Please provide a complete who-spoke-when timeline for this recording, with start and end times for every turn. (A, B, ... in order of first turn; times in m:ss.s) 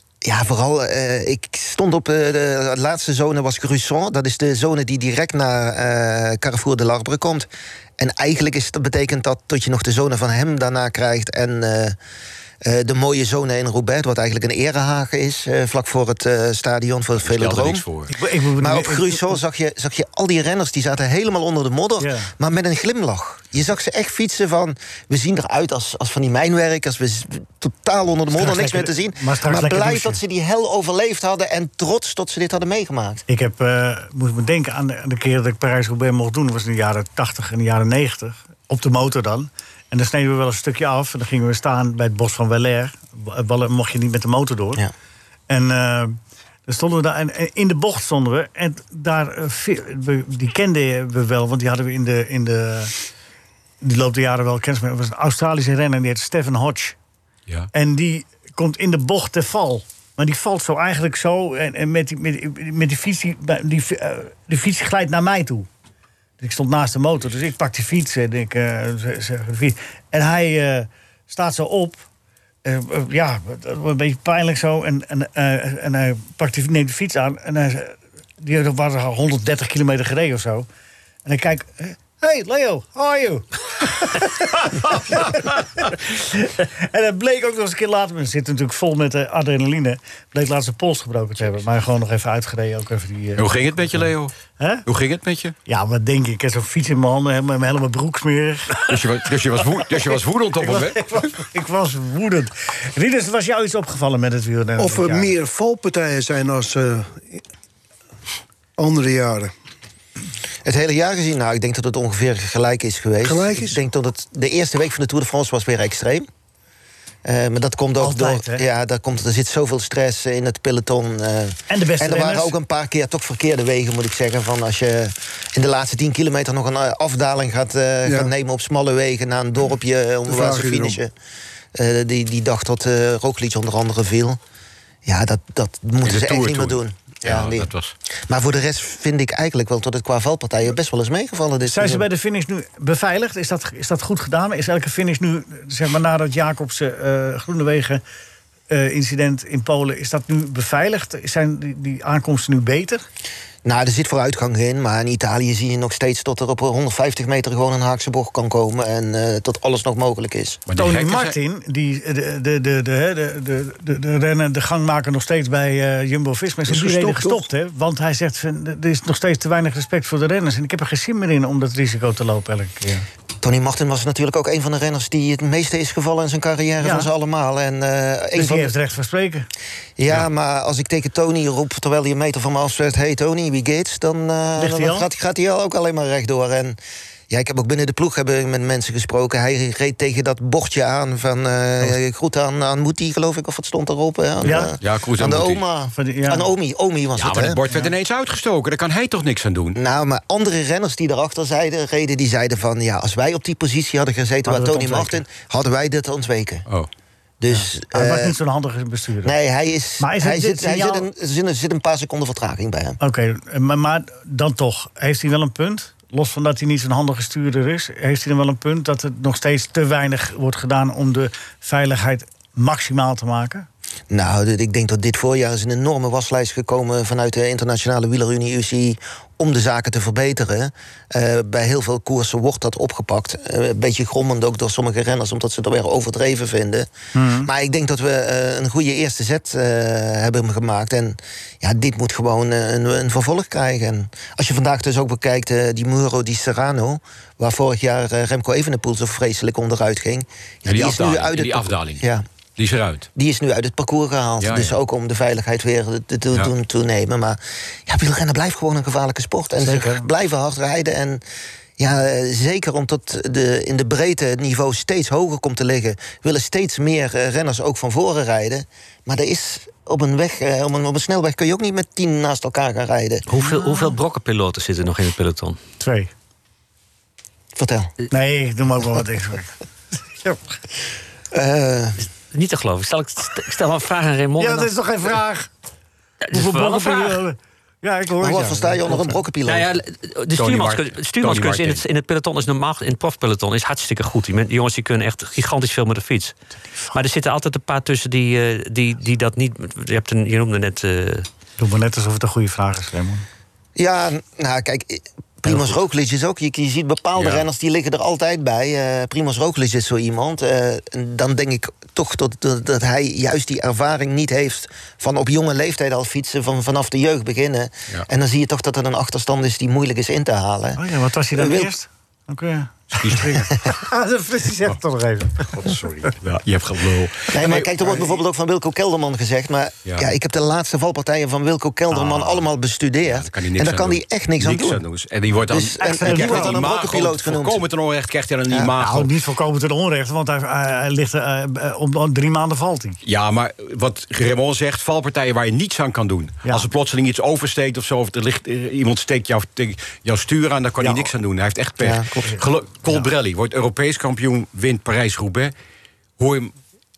0:00.2-0:12.0 A
0:12.6-0:17.8 A
0:17.2-0:18.1 B
0:18.1-0:19.4 C
0:18.6-0:33.2 A
0:22.0-0:22.3 C
0:28.3-0:30.2 C
0:33.3-0:44.8 C
0:45.5-0:52.9 C
0:53.8-0:57.0 C
0:57.7-1:05.7 C
1:06.4-1:12.0 C
1:12.6-1:20.7 C
1:21.2-1:34.9 C
1:33.4-1:34.3 B
1:34.9-1:35.6 B
1:35.7-1:39.2 C
1:38.9-1:41.0 B
1:39.8-1:45.3 C
1:44.8-1:47.4 D
1:48.8-1:49.5 D
1:50.6-1:56.3 A
1:53.2-1:53.8 D
1:57.2-2:11.1 A
1:58.0-1:58.6 C
2:01.7-2:02.5 C
2:08.1-2:08.3 D
2:10.3-2:11.0 D
2:11.8-2:14.4 A
2:15.0-2:17.7 A
2:16.0-2:17.9 B
2:18.3-2:22.1 A
2:21.6-2:28.0 C
2:28.7-2:33.1 C
2:33.6-2:40.6 A
2:40.7-2:41.4 B
2:40.7-2:53.1 C
2:46.7-2:47.4 D
2:53.4-2:58.7 A
2:56.8-2:57.1 C
2:58.4-2:59.5 C
3:00.0-3:06.8 A
3:04.6-3:05.1 C
3:07.3-3:17.6 A
3:14.4-3:14.7 C
3:14.4-3:15.6 B
3:15.9-3:16.5 C
3:17.2-3:19.8 B
3:19.8-3:26.6 A
3:24.5-3:25.2 C
3:27.4-3:28.4 A
3:27.5-3:29.4 C
3:29.2-3:33.0 A
3:30.0-3:31.1 C
3:33.0-3:43.7 C
3:44.1-3:56.9 A
3:57.1-3:57.5 C
3:57.4-4:12.2 A
4:10.7-4:12.1 B
4:12.6-4:13.1 B
4:13.1-4:21.2 A
4:14.4-4:14.8 B
4:19.6-4:20.1 C
4:21.8-4:33.3 A
4:33.3-4:35.6 E
4:33.4-4:34.0 C
4:35.8-4:36.1 C
4:37.6-4:37.9 A
4:38.1-4:39.5 C
4:41.3-4:42.0 A
4:42.3-4:44.7 E
4:44.4-4:45.5 C
4:46.2-4:47.2 E
4:46.3-4:49.2 C
4:48.2-4:49.7 A
4:49.4-4:56.4 E
4:50.4-4:51.8 B
4:56.9-5:01.3 E
5:01.6-5:03.2 C
5:03.8-5:21.7 A
5:05.5-5:05.8 B
5:07.2-5:07.4 B
5:20.8-5:26.1 C
5:22.9-5:23.4 B
5:25.6-5:28.1 B
5:27.3-5:34.8 A
5:32.1-5:32.4 B
5:33.1-5:39.1 B
5:35.5-5:37.6 A
5:35.8-5:36.7 C
5:38.5-5:38.7 A
5:38.7-5:43.0 C
5:43.0-5:55.5 B
5:50.8-5:51.1 C
5:51.8-5:52.3 A
5:52.2-5:53.1 C
5:56.2-5:56.5 B